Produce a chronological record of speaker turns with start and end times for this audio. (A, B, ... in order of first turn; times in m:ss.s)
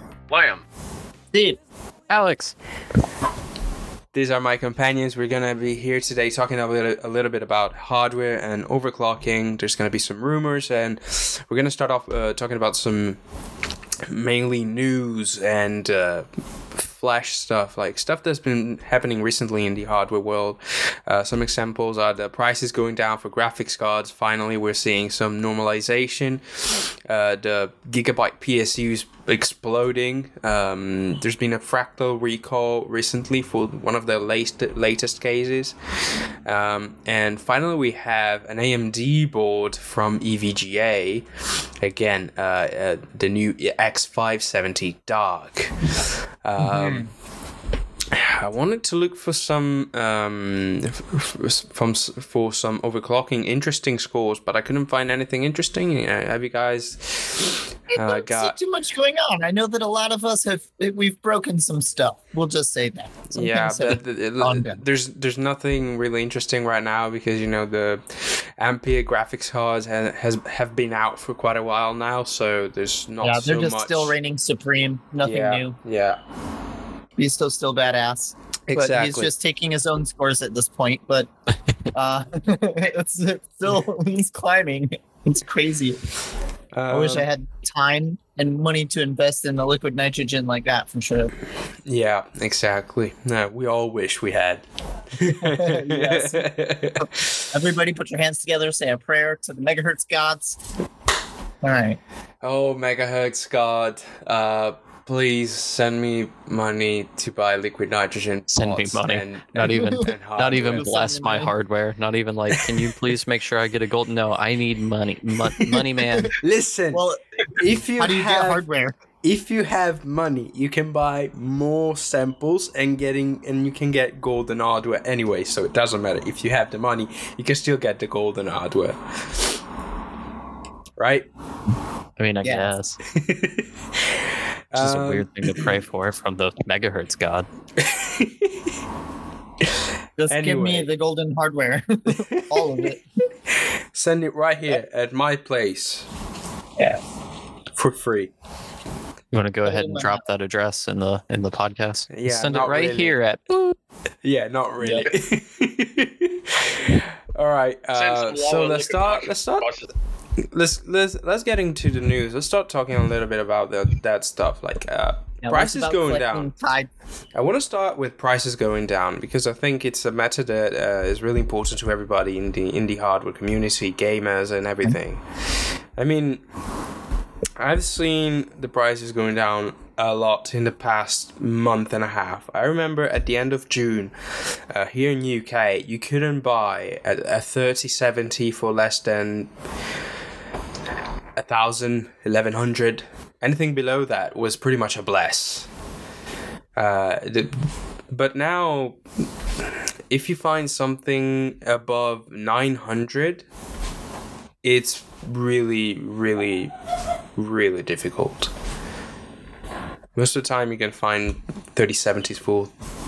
0:00.3-0:00.6 A
0:01.3-0:01.6 B
0:02.1-0:02.5 C
0:04.1-0:13.2 D
0:14.0-0:35.8 D
0:36.4-0:41.3 D
0:41.8-0:47.1 D
0:46.6-0:47.1 B
0:48.1-0:58.6 D
0:57.9-1:04.8 B
1:03.3-1:14.1 D
1:13.2-1:15.8 B
1:15.2-1:16.2 D
1:17.2-1:21.3 B
1:18.7-1:19.3 D
1:21.9-1:26.0 B
1:26.7-1:27.3 D
1:26.9-1:31.3 B
1:31.8-1:37.5 D
1:35.2-1:40.6 B
1:41.6-1:42.0 B
1:42.4-1:51.0 D
1:48.5-1:56.3 C
1:49.6-1:51.5 B
1:52.5-1:53.0 D
1:55.5-1:55.8 D
1:56.4-1:58.6 D
1:56.9-1:57.2 B
1:58.0-1:59.0 B
1:59.2-2:09.6 D
2:11.0-2:11.3 D
2:12.2-2:13.0 C
2:12.4-2:12.7 B
2:13.1-2:14.2 D
2:14.7-2:15.8 D
2:14.7-2:17.5 C
2:17.8-2:18.6 D
2:20.2-2:23.0 B
2:20.2-2:20.9 D
2:22.1-2:23.0 D
2:23.5-2:26.1 D
2:27.8-2:28.3 D
2:29.3-2:33.8 C
2:29.6-2:30.2 B
2:32.1-2:33.2 D
2:34.2-2:39.7 D
2:34.8-2:35.1 B
2:37.9-2:39.9 A
2:40.4-2:46.5 D
2:45.4-2:46.9 B
2:47.3-2:56.4 D
2:57.6-3:09.5 D
3:11.4-3:15.7 D
3:16.8-3:19.0 D
3:19.6-3:23.4 D
3:24.6-3:26.7 D
3:27.4-3:28.5 D
3:30.1-3:32.7 D